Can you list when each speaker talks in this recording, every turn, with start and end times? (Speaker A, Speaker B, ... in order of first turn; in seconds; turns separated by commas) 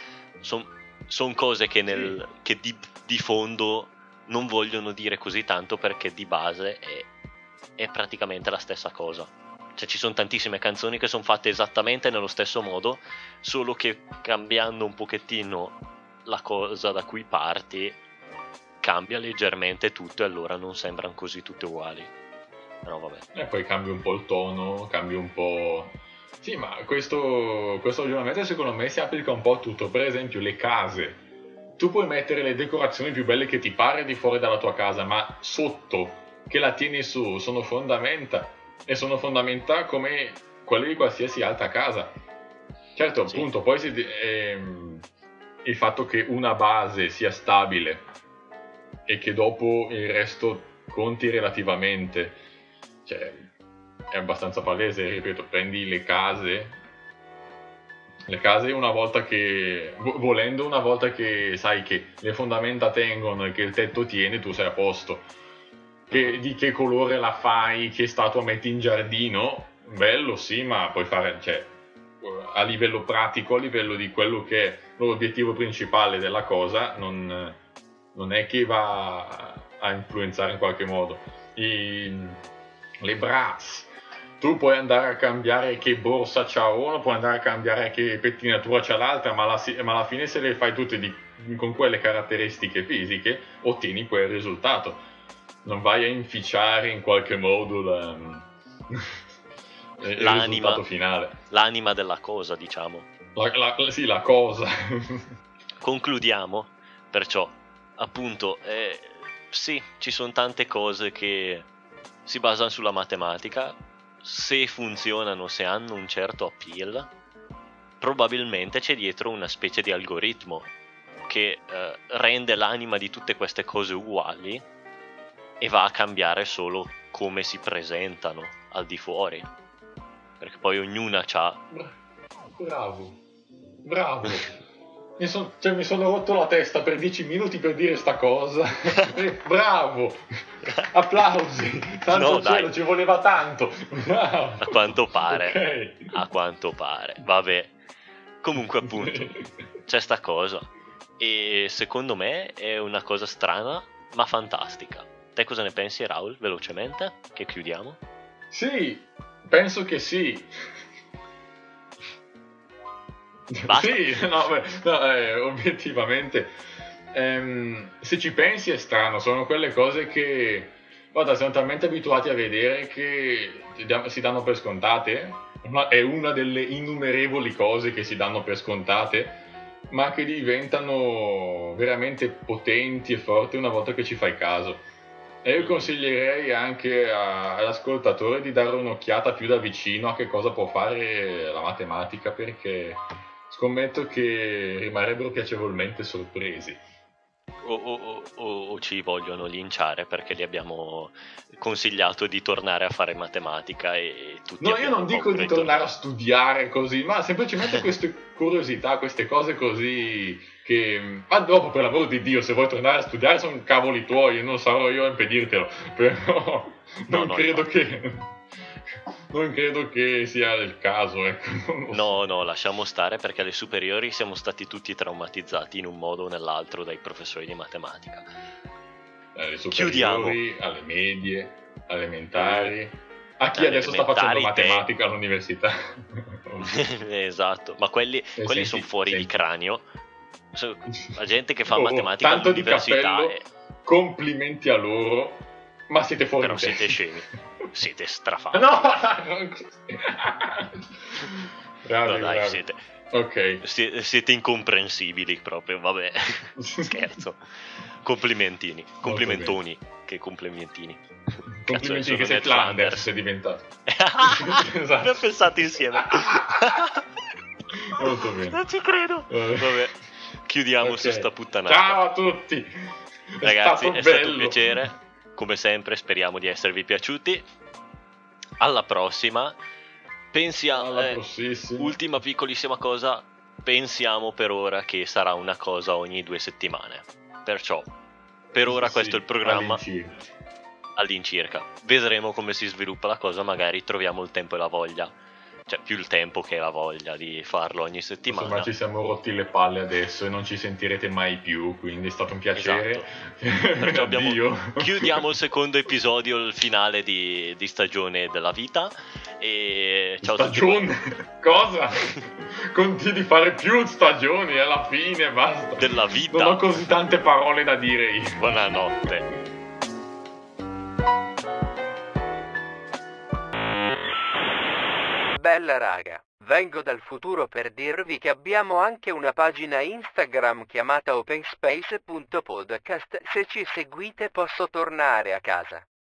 Speaker A: 0.4-7.1, Speaker B: 1.9-2.2, Speaker A: 7.8-18.0, Speaker A: 18.8-22.1, Speaker A: 22.8-23.2, Speaker B: 23.3-31.2, Speaker B: 31.8-42.1, Speaker B: 42.9-45.0, Speaker B: 45.6-48.0, Speaker B: 49.1-52.4, Speaker B: 53.0-53.5, Speaker B: 54.1-56.8, Speaker B: 58.2-65.3, Speaker B: 66.1-77.6, Speaker B: 78.1-82.4, Speaker B: 83.0-95.0, Speaker B: 95.6-99.2, Speaker B: 100.0-101.4, Speaker A: 100.1-100.8, Speaker A: 101.5-103.1, Speaker B: 103.3-105.3, Speaker A: 105.8-111.7, Speaker A: 112.2-117.1, Speaker A: 118.0-120.7, Speaker A: 121.3-124.6, Speaker A: 125.6-129.5, Speaker A: 130.4-131.6, Speaker B: 131.7-131.9, Speaker B: 132.6-133.2, Speaker B: 133.8-134.6, Speaker B: 135.2-140.2, Speaker B: 140.8-146.1, Speaker A: 142.1-142.7, Speaker A: 144.6-147.7, Speaker A: 148.4-158.0, Speaker B: 148.8-149.5, Speaker B: 158.5-160.6, Speaker B: 163.5-166.5, Speaker A: 163.7-164.5, Speaker B: 167.1-184.8, Speaker B: 185.4-196.8, Speaker A: 185.6-185.9, Speaker A: 197.6-205.9, Speaker B: 204.6-218.4, Speaker A: 217.1-217.7, Speaker B: 219.3-222.2, Speaker A: 221.9-228.3, Speaker B: 229.3-236.8, Speaker A: 229.7-230.4, Speaker A: 232.4-232.7, Speaker A: 233.5-234.9, Speaker A: 236.6-239.8, Speaker B: 238.4-239.3, Speaker A: 240.5-243.4, Speaker B: 241.7-247.0, Speaker A: 246.4-248.7, Speaker B: 248.5-253.6, Speaker A: 252.0-252.8, Speaker A: 253.6-257.4, Speaker B: 256.6-257.2, Speaker A: 258.0-263.1, Speaker B: 259.0-259.6, Speaker B: 261.6-263.6, Speaker A: 263.9-267.0, Speaker B: 264.2-266.8, Speaker B: 267.9-268.6, Speaker A: 267.9-272.0, Speaker B: 269.3-269.9, Speaker B: 270.8-272.7, Speaker B: 273.3-274.9, Speaker A: 273.4-277.5, Speaker A: 278.6-279.6, Speaker A: 280.3-281.2, Speaker B: 280.7-281.9, Speaker A: 281.8-287.9, Speaker A: 288.5-289.8, Speaker B: 288.6-290.3, Speaker A: 291.0-295.1, Speaker A: 295.7-298.7, Speaker B: 298.3-305.2, Speaker A: 302.5-303.1, Speaker A: 303.8-310.8, Speaker B: 310.2-318.4, Speaker A: 315.8-316.9, Speaker A: 318.4-319.3, Speaker C: 325.3-335.9